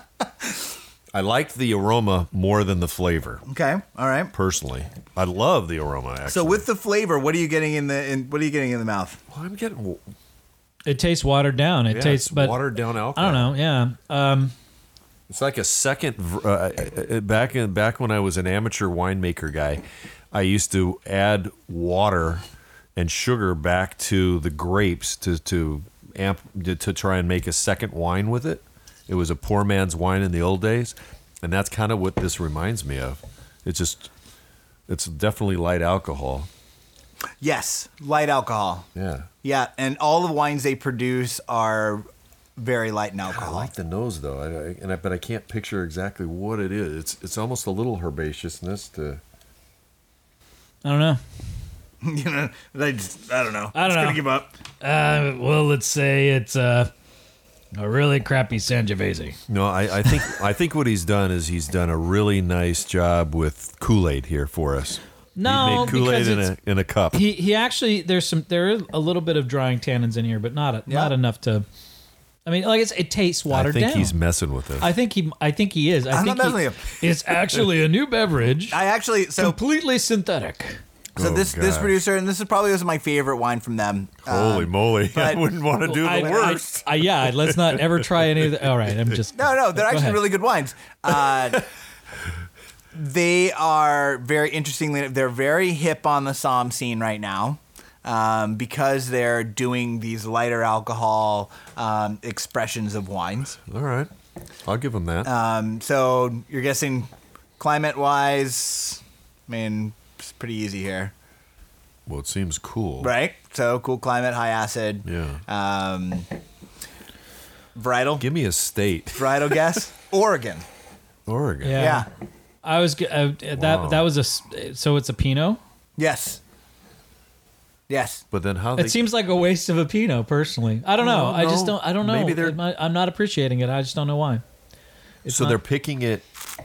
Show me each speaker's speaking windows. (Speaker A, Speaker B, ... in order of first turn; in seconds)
Speaker A: 1.1-3.4, 4.3-6.7, 9.3-10.0, 11.9-13.5, 15.3-22.4, 23.0-34.1, 34.9-36.5, 39.0-39.3, 43.3-49.2, 59.5-67.2, 73.5-74.9, 81.2-82.0, 84.3-89.1, 103.7-104.1, 104.7-105.3, 112.1-113.1, 115.0-115.4, 118.2-119.7, 121.3-121.9, 123.6-124.1, 128.3-129.0, 131.0-132.6, 135.3-136.3
Speaker B: 3.5-4.3, 6.3-9.2, 37.4-38.9, 39.4-43.7, 52.0-54.5, 70.9-71.1, 76.1-77.1, 78.7-79.6, 81.2-85.5, 89.3-91.7, 92.9-103.6, 105.2-111.1, 113.0-116.3, 117.8-118.3, 119.2-120.7, 121.8-122.1, 126.0-126.4, 127.9-128.2
Speaker C: 10.9-14.5, 50.8-51.2, 53.7-54.2, 54.8-56.9, 57.8-59.4, 65.4-66.5, 67.1-71.7, 72.5-74.2, 74.8-78.8, 79.4-80.8, 85.8-90.2, 121.6-122.1, 122.6-125.6, 128.8-134.4, 135.2-135.6